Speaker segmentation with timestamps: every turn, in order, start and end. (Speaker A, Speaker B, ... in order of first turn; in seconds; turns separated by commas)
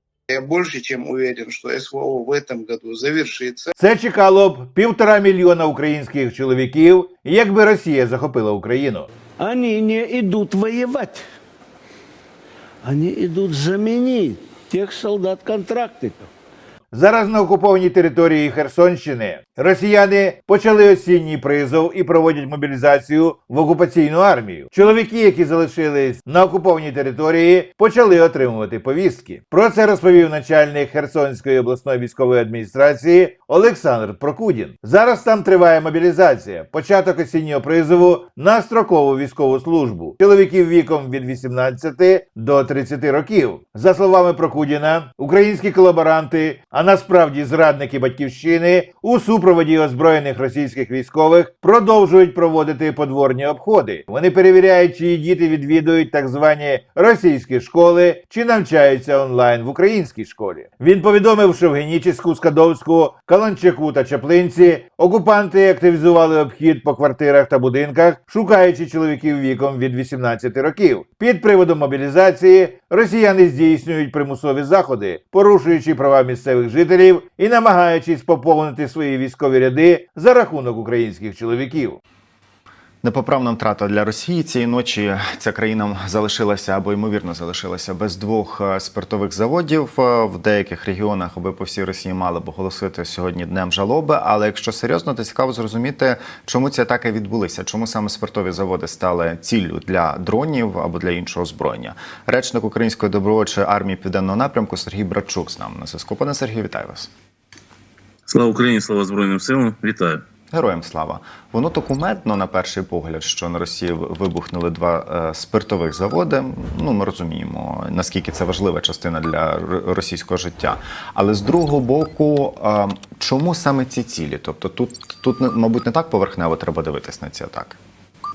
Speaker A: 0.3-3.7, Speaker B: 3.8-9.1, Speaker C: 9.4-11.2, Speaker C: 12.8-16.3, Speaker B: 16.9-82.0, Speaker D: 83.0-107.1, Speaker E: 108.3-110.2, Speaker D: 110.5-127.8